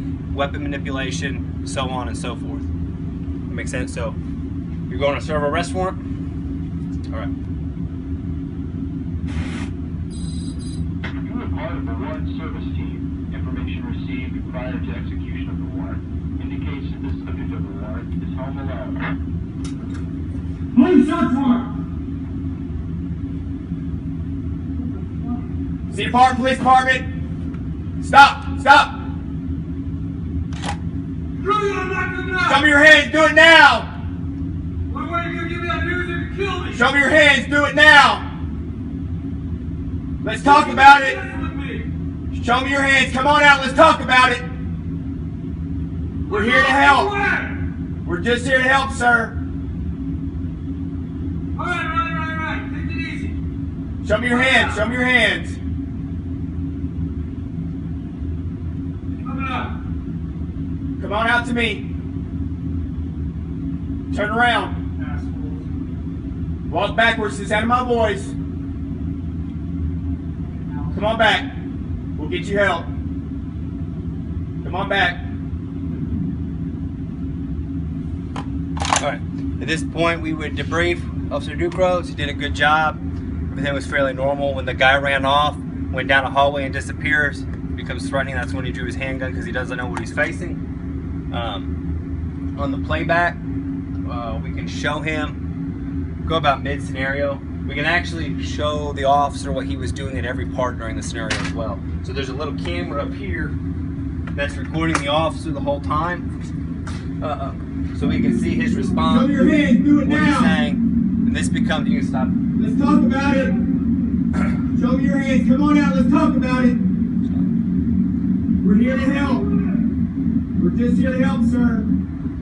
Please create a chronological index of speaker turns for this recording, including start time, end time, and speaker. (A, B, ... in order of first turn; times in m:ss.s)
0:00.3-0:02.7 A
0:03.5-0:04.2 A
0:04.9-0:06.0 A
0:11.1-0:19.1 B
0:20.7-0:21.7 C
0:24.9-0:25.4 C
0:25.9-0:27.0 D
0:28.0-0:29.0 D
0:31.4-0:32.7 C
0:32.4-0:33.9 D
0:34.9-0:36.8 C
0:36.7-0:38.2 D
0:40.2-0:41.2 D
0:40.4-0:41.9 C
0:42.3-0:44.4 D
0:46.2-0:47.6 C
0:46.3-0:47.1 D
0:48.0-0:49.4 D
0:51.6-0:53.4 C
0:54.0-0:55.6 D
0:54.3-0:54.9 C
0:59.2-0:59.8 C
1:01.0-1:01.9 D
1:04.1-1:04.8 D
1:05.0-1:05.7 C
1:06.7-1:08.3 D
1:10.6-1:10.9 C
1:10.9-1:11.5 D
1:12.2-1:12.9 D
1:14.6-1:15.2 D
1:19.0-1:30.6 A
1:31.3-1:31.7 A
1:32.6-1:33.4 A
1:34.1-1:35.4 A
1:36.2-1:43.6 A
1:44.4-1:46.3 A
1:47.2-1:49.4 A
1:49.1-1:50.5 D
1:50.0-1:52.4 A
1:52.6-1:53.6 D
1:54.7-1:56.8 D
1:57.2-1:57.5 A
1:58.6-1:59.5 D
2:00.6-2:01.9 D